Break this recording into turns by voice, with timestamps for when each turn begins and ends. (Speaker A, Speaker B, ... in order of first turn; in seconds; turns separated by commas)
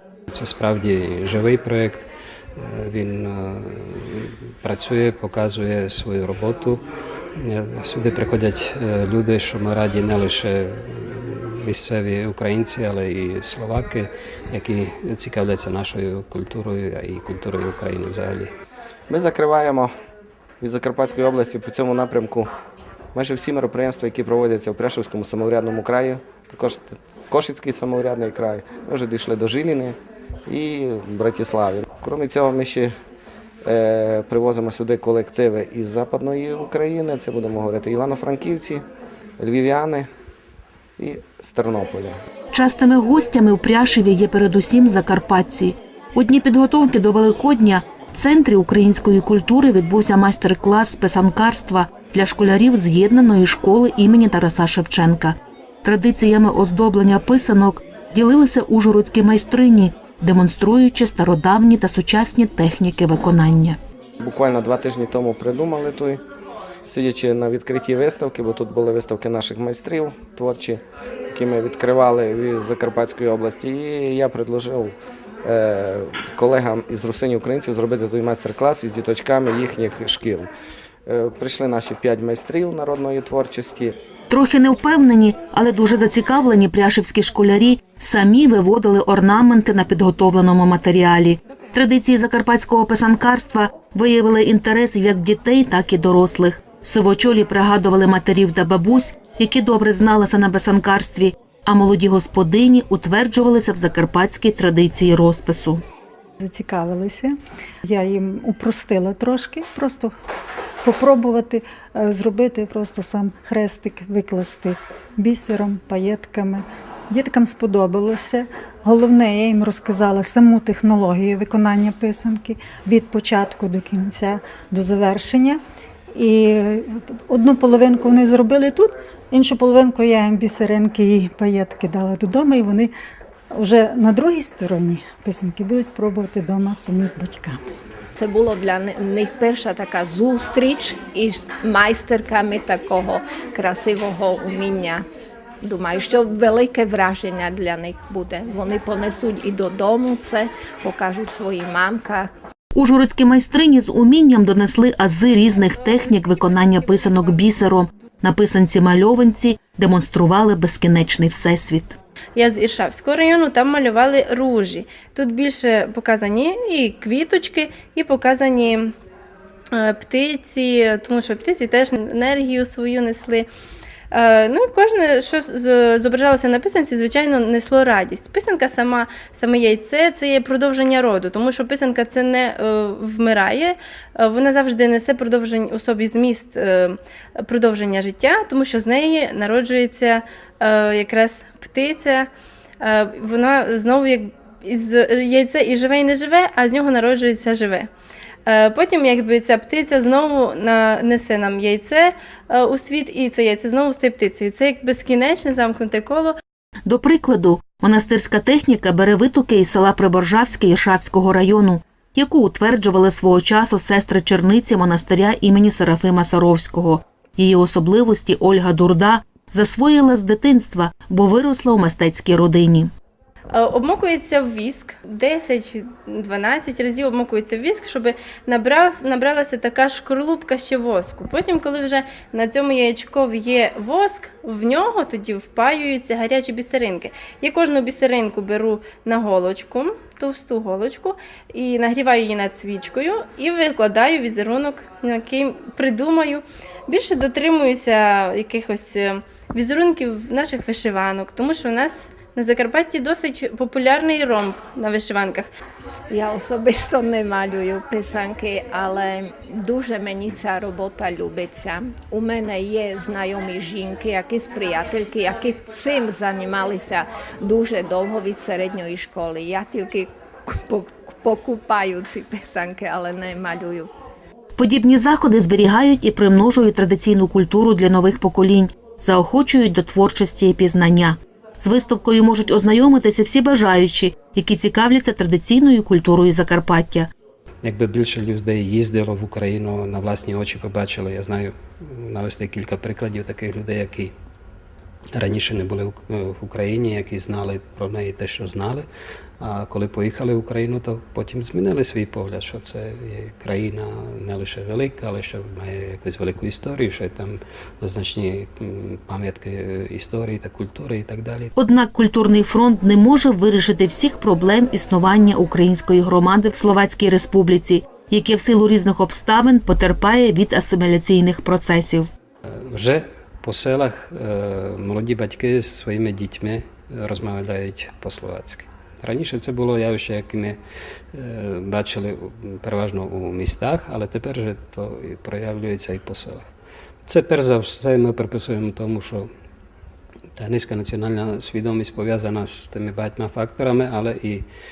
Speaker A: 0.3-6.8, Speaker A: 7.3-18.5, Speaker B: 19.1-19.9, Speaker B: 20.6-22.5, Speaker B: 23.1-29.9, Speaker B: 30.4-32.9, Speaker B: 33.6-38.8, Speaker B: 39.4-40.1, Speaker B: 41.0-42.1, Speaker C: 42.5-63.8, Speaker B: 64.2-66.2, Speaker B: 66.9-70.8, Speaker B: 71.3-74.9, Speaker B: 75.4-80.5, Speaker B: 81.1-83.9, Speaker C: 84.3-105.8, Speaker D: 106.4-107.3, Speaker D: 107.9-110.1, Speaker D: 110.8-125.6, Speaker D: 126.2-132.9, Speaker D: 133.6-137.5, Speaker E: 138.2-145.0, Speaker E: 145.6-152.3, Speaker C: 152.7-162.0, Speaker F: 162.3-168.9, Speaker F: 169.8-173.5, Speaker F: 174.1-192.3, Speaker F: 192.8-197.9, Speaker F: 198.5-206.3, Speaker C: 206.8-222.9, Speaker F: 223.5-255.5, Speaker E: 256.1-273.9, Speaker C: 274.6-287.1, Speaker A: 287.6-294.1, Speaker A: 295.1-298.9, Speaker A: 299.4-311.5, Speaker C: 311.6-322.1, Speaker A: 322.7-330.6, Speaker A: 331.1-336.5, Speaker A: 337.1-339.3, Speaker A: 340.4-344.4